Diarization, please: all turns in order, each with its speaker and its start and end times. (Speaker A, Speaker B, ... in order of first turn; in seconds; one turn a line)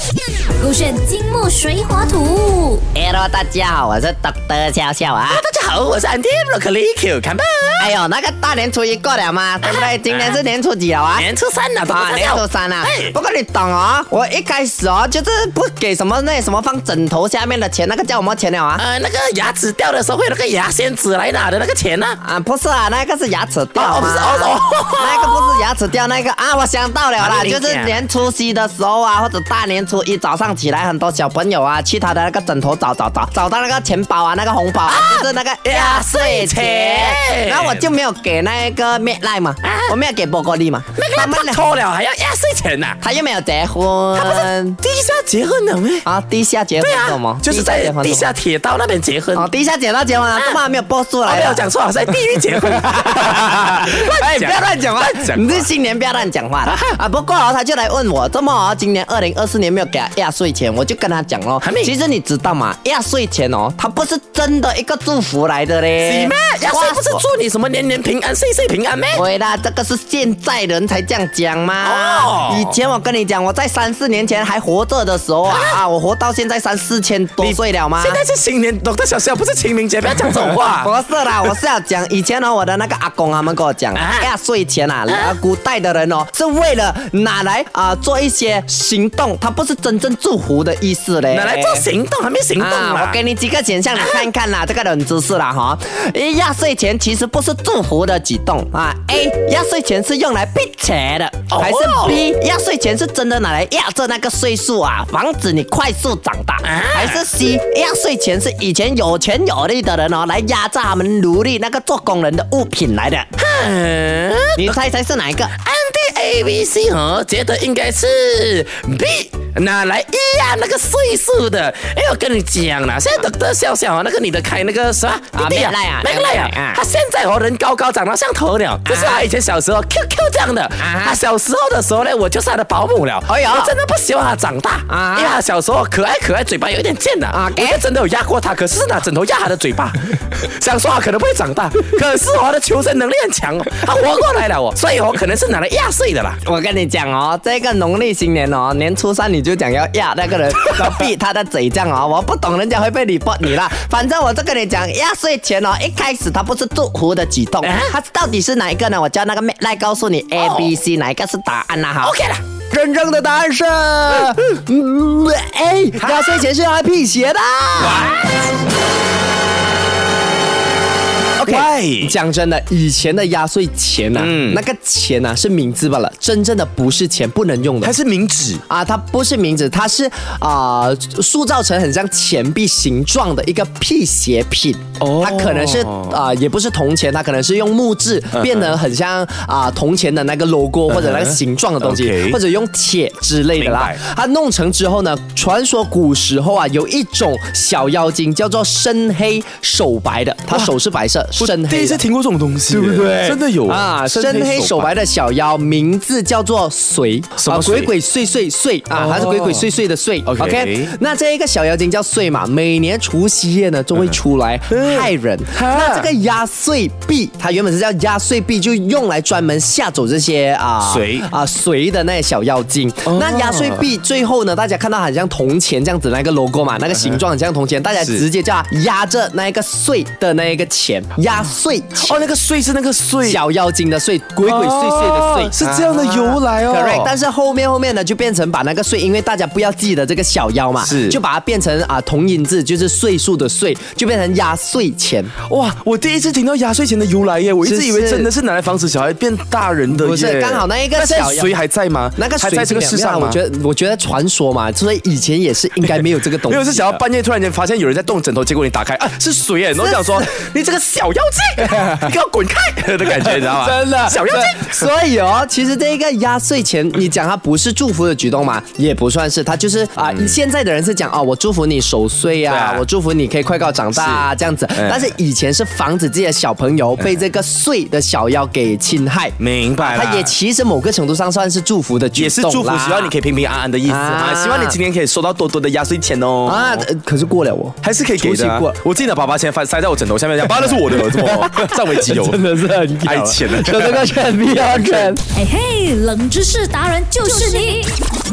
Speaker A: 0.6-2.9
Speaker B: 2.9-5.4
Speaker C: 5.3-8.0
Speaker B: 7.8-11.3
Speaker C: 9.6-10.4
Speaker C: 11.2-13.1
Speaker B: 11.9-18.8
Speaker C: 18.8-22.2
Speaker B: 22.2-41.6
Speaker C: 23.8-25.6
Speaker C: 27.2-28.0
Speaker C: 34.9-37.9
Speaker C: 39.6-39.9
Speaker C: 41.0-43.0
Speaker B: 43.0-44.8
Speaker C: 44.1-46.0
Speaker B: 46.0-48.3
Speaker C: 46.8-49.5
Speaker B: 49.3-51.6
Speaker C: 51.2-55.7
Speaker B: 52.6-67.2
Speaker C: 56.6-57.0
Speaker C: 61.6-61.9
Speaker C: 66.0-69.2
Speaker B: 69.1-78.2
Speaker C: 71.8-72.8
Speaker C: 75.5-75.8
Speaker C: 77.4-80.9
Speaker B: 80.6-91.8
Speaker C: 84.0-84.3
Speaker C: 85.1-85.3
Speaker C: 91.3-93.2
Speaker B: 92.6-113.3
Speaker C: 94.0-94.2
Speaker C: 101.5-102.3
Speaker C: 106.6-107.2
Speaker C: 113.4-114.8
Speaker B: 114.6-115.5
Speaker C: 115.5-146.4
Speaker B: 125.3-126.8
Speaker B: 128.8-129.3
Speaker B: 130.8-131.2
Speaker B: 133.3-133.7
Speaker B: 134.9-135.4
Speaker B: 137.3-137.8
Speaker B: 146.4-162.2
Speaker C: 157.6-157.9
Speaker C: 160.3-160.7
Speaker C: 162.0-162.4
Speaker B: 162.7-168.1
Speaker D: 167.9-168.1
Speaker D: 171.4-172.1
Speaker B: 171.4-177.9
Speaker D: 174.2-174.6
Speaker D: 177.8-178.6
Speaker B: 178.7-202.0
Speaker D: 185.0-186.2
Speaker D: 188.3-188.7
Speaker D: 190.9-192.4
Speaker D: 193.6-194.0
Speaker D: 201.3-204.9
Speaker B: 202.7-232.2
Speaker D: 207.4-207.9
Speaker D: 208.9-209.7
Speaker D: 210.2-210.9
Speaker D: 214.7-216.1
Speaker D: 220.8-221.3
Speaker D: 223.0-223.9
Speaker D: 232.0-233.4
Speaker B: 233.2-245.3
Speaker D: 234.4-237.1
Speaker D: 240.8-241.2
Speaker D: 245.4-253.4
Speaker B: 247.6-248.3
Speaker B: 249.9-251.5
Speaker B: 252.2-257.0
Speaker D: 255.8-264.9
Speaker B: 259.8-260.3
Speaker B: 263.1-283.1
Speaker D: 270.0-270.4
Speaker D: 272.5-272.8
Speaker D: 273.9-274.2
Speaker D: 274.8-275.1
Speaker D: 279.4-280.3
Speaker D: 282.2-286.9
Speaker B: 283.9-284.8
Speaker B: 286.4-288.8
Speaker D: 287.8-292.4
Speaker B: 290.4-295.2
Speaker D: 293.0-294.1
Speaker D: 294.6-295.2
Speaker A: 295.3-297.9